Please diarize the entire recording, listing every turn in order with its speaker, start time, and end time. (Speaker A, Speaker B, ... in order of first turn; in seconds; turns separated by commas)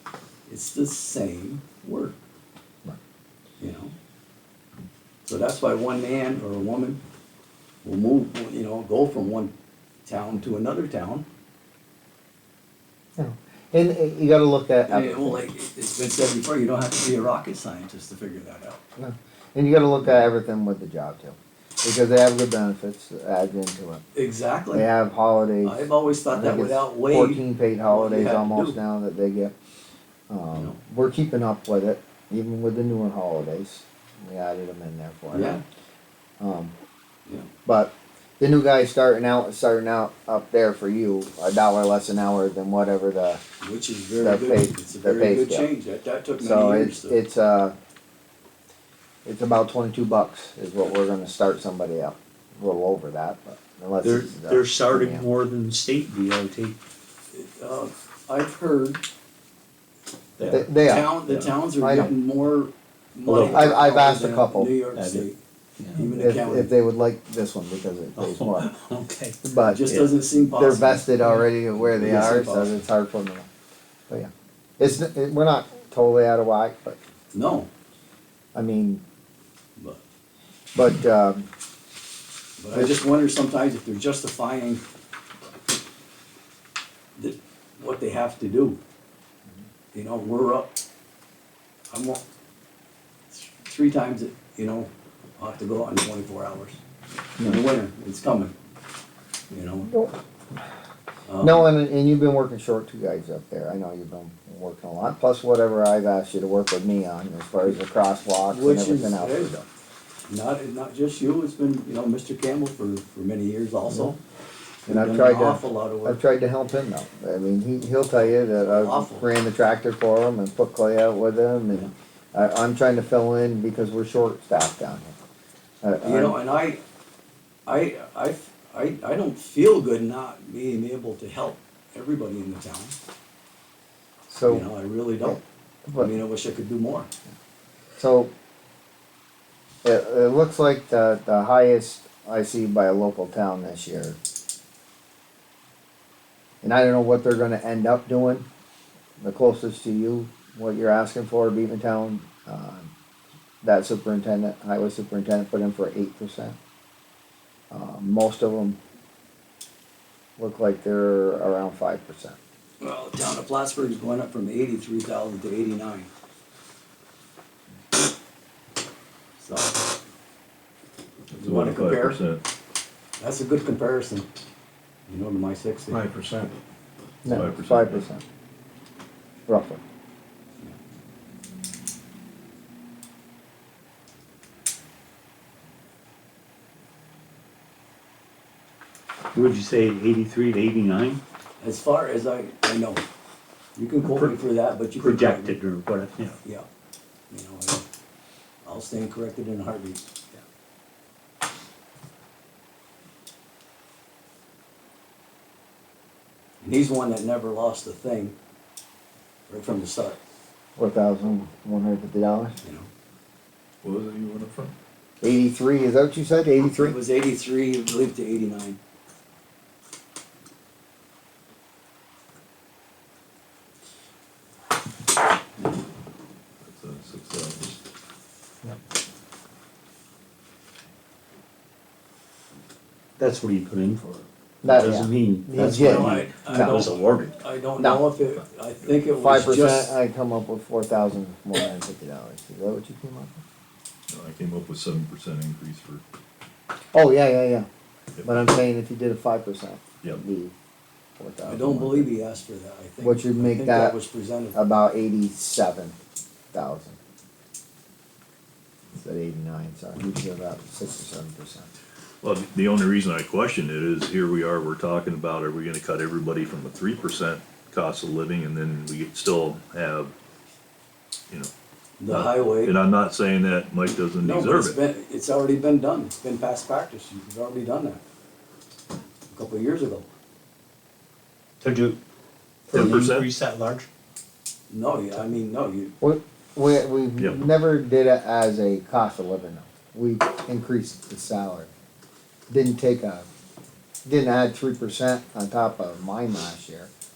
Speaker A: 0.5-2.2, Speaker A: 3.6-3.9, Speaker A: 5.2-7.0, Speaker A: 7.8-9.5, Speaker A: 10.0-11.2, Speaker B: 13.2-15.4, Speaker A: 14.9-18.8, Speaker B: 19.0-24.0, Speaker A: 24.1-24.9, Speaker B: 24.7-29.5, Speaker A: 25.6-28.8, Speaker B: 30.3-35.6, Speaker A: 35.3-35.6, Speaker B: 36.4-36.7, Speaker B: 37.6-43.4, Speaker A: 43.6-47.2, Speaker B: 44.2-45.7, Speaker B: 46.4-47.7, Speaker B: 49.2-55.2, Speaker C: 54.0-56.8, Speaker A: 57.3-59.0, Speaker C: 60.4-60.6, Speaker B: 60.5-61.1, Speaker A: 60.8-65.4, Speaker B: 61.8-62.1, Speaker C: 63.2-63.7, Speaker B: 63.5-64.7, Speaker C: 64.9-65.3, Speaker C: 65.8-66.1, Speaker A: 65.9-66.7, Speaker B: 66.1-68.7, Speaker C: 68.2-70.1, Speaker B: 69.4-69.9, Speaker A: 69.6-71.4, Speaker B: 70.5-73.5, Speaker A: 72.0-72.8, Speaker B: 74.1-77.0, Speaker A: 77.3-77.7, Speaker B: 78.5-79.0, Speaker B: 80.7-81.5, Speaker A: 82.6-84.8, Speaker A: 87.2-88.8, Speaker A: 89.9-90.7, Speaker A: 91.9-92.2, Speaker A: 93.3-96.8, Speaker A: 97.4-98.5, Speaker A: 99.5-99.9, Speaker B: 99.8-100.2, Speaker A: 101.3-101.7, Speaker B: 101.4-109.7, Speaker A: 108.5-109.5, Speaker A: 110.3-114.2, Speaker A: 114.8-116.2, Speaker B: 114.9-125.1, Speaker A: 118.3-119.3, Speaker B: 125.8-126.4, Speaker A: 126.0-126.8, Speaker A: 127.7-132.9, Speaker B: 134.3-134.7, Speaker A: 134.5-135.4, Speaker B: 135.2-136.1, Speaker A: 136.0-137.1, Speaker B: 138.0-138.3, Speaker B: 139.8-144.2, Speaker B: 146.6-148.4, Speaker B: 149.2-152.9, Speaker B: 153.6-156.6, Speaker B: 157.7-158.8, Speaker B: 160.4-162.4, Speaker A: 162.8-166.1, Speaker A: 169.4-169.8, Speaker A: 171.3-172.2, Speaker D: 171.4-172.4, Speaker A: 173.2-174.3, Speaker A: 175.1-176.1, Speaker C: 175.9-176.5, Speaker B: 177.2-178.2, Speaker D: 177.2-178.0, Speaker B: 179.5-179.8, Speaker C: 189.3-191.2, Speaker A: 191.6-193.0, Speaker A: 193.8-195.6, Speaker C: 194.1-194.3, Speaker C: 195.0-196.4, Speaker A: 197.3-197.8, Speaker A: 198.6-200.1, Speaker A: 206.6-208.3, Speaker A: 209.5-210.2, Speaker B: 210.8-212.6, Speaker D: 213.8-214.7, Speaker B: 215.2-217.0, Speaker A: 216.7-218.8, Speaker D: 226.6-227.8, Speaker C: 233.2-237.4, Speaker B: 234.6-236.8, Speaker A: 235.6-240.0, Speaker B: 239.1-243.4, Speaker D: 244.1-246.0, Speaker B: 246.9-247.7, Speaker B: 248.2-250.5, Speaker B: 251.2-252.1, Speaker A: 251.5-254.6, Speaker B: 253.0-254.0, Speaker B: 254.5-255.9, Speaker B: 256.5-256.9, Speaker B: 258.9-261.7, Speaker D: 262.2-270.1, Speaker A: 272.0-272.8, Speaker D: 272.1-274.8, Speaker A: 274.2-278.0, Speaker A: 279.3-280.1, Speaker C: 281.6-282.0, Speaker C: 282.7-283.9, Speaker D: 282.7-283.3, Speaker A: 284.7-285.9, Speaker B: 286.0-291.7, Speaker B: 292.5-293.3, Speaker B: 294.1-296.9